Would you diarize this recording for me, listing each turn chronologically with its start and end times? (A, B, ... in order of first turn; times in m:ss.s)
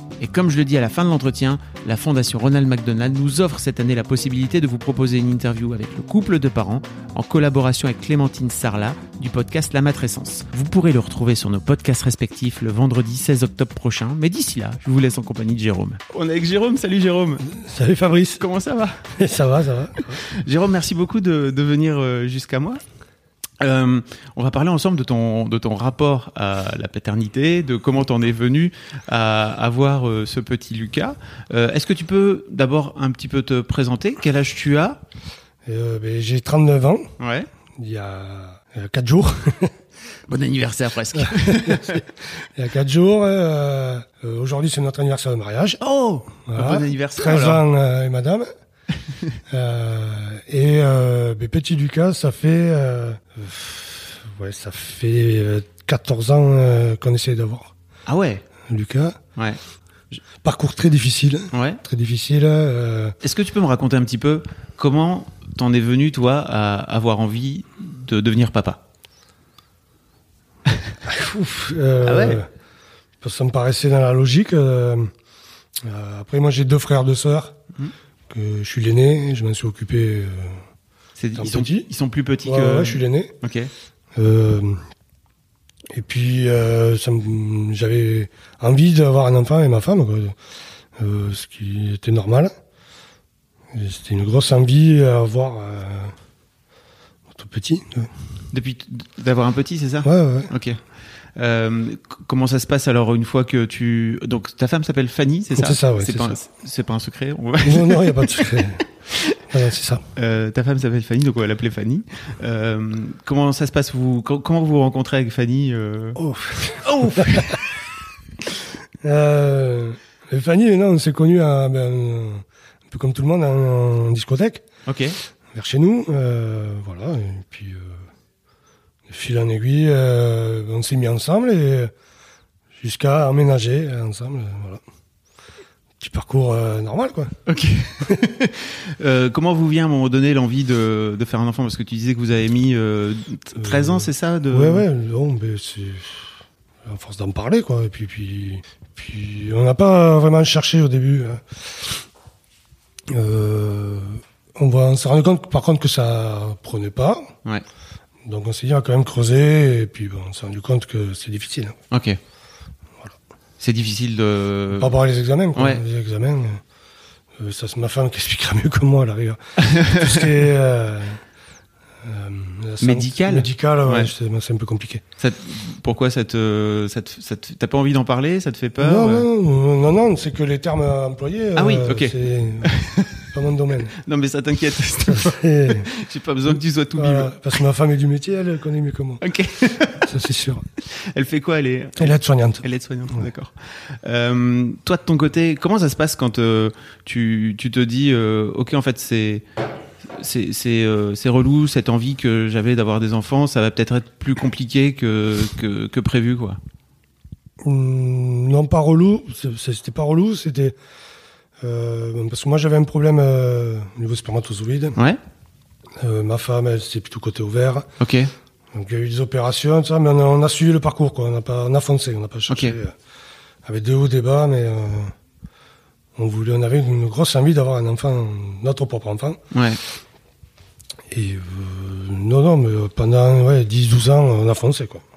0:00.2-0:17.5 A
0:17.5-0:18.4 B
0:18.4-0:19.0 A
0:19.1-0:20.2 B
0:20.2-0:22.8 A
0:23.6-0:35.0 A
0:35.7-0:37.2 B
0:37.2-0:37.5 A
0:37.8-0:39.8 B
0:40.3-0:42.0 A
0:41.1-0:45.8 B
0:45.8-0:47.6 A
0:46.5-0:48.5 B
0:49.1-0:49.4 A
0:49.5-0:57.7 B
0:58.1-0:58.4 A
0:58.7-0:59.2 B
1:00.4-1:03.2 B
1:01.5-1:01.8 A
1:03.2-1:08.8 A
1:11.1-1:12.5 B
1:12.0-1:12.4 A
1:13.2-1:15.1 B
1:15.8-1:17.6 B
1:18.3-1:20.6 B
1:21.2-1:23.7 A
1:21.4-1:21.9 B
1:22.4-1:23.4 B
1:24.2-1:24.8 B
1:25.9-1:30.4 B
1:31.0-1:32.5 B
1:33.7-1:36.2 B
1:37.3-1:38.1 B
1:38.5-1:40.8 A
1:40.0-1:40.5 B
1:41.4-1:49.4 A
1:45.5-1:46.4 B
1:47.6-1:48.8 B
1:49.5-1:50.0 B
1:50.2-1:57.6 A
1:56.2-1:57.6 B
1:59.0-2:04.6 B
2:04.9-2:05.2 A
2:05.5-2:08.0 B
2:09.1-2:11.9 B
2:12.8-2:14.8 B
2:16.0-2:17.4 B
2:17.5-2:24.8 A
2:23.6-2:26.3 B
2:26.8-2:32.0 B
2:33.1-2:37.3 B
2:38.3-2:41.8 B
2:41.9-2:42.2 A
2:43.6-2:44.9 A
2:44.8-2:46.6 B
2:45.6-2:45.8 A
2:47.4-2:51.2 B
2:49.6-2:50.2 A
2:52.0-2:55.0 B
2:52.8-2:54.1 A
2:55.2-2:59.3 A
2:58.8-3:04.0 B
3:01.6-3:03.2 A
3:03.9-3:07.6 A
3:05.0-3:05.9 B
3:07.0-3:09.2 B
3:09.2-3:10.1 A
3:10.0-3:10.6 B
3:10.8-3:19.4 A
3:12.0-3:12.6 B
3:20.1-3:26.6 A
3:27.6-3:30.8 B
3:31.6-3:35.0 B
3:36.0-3:37.9 B
3:38.0-3:38.3 A
3:38.7-3:43.0 B
3:42.5-3:42.8 A
3:43.6-3:45.1 B
3:46.2-3:49.4 B
3:49.5-3:49.8 A
3:51.1-3:55.0 B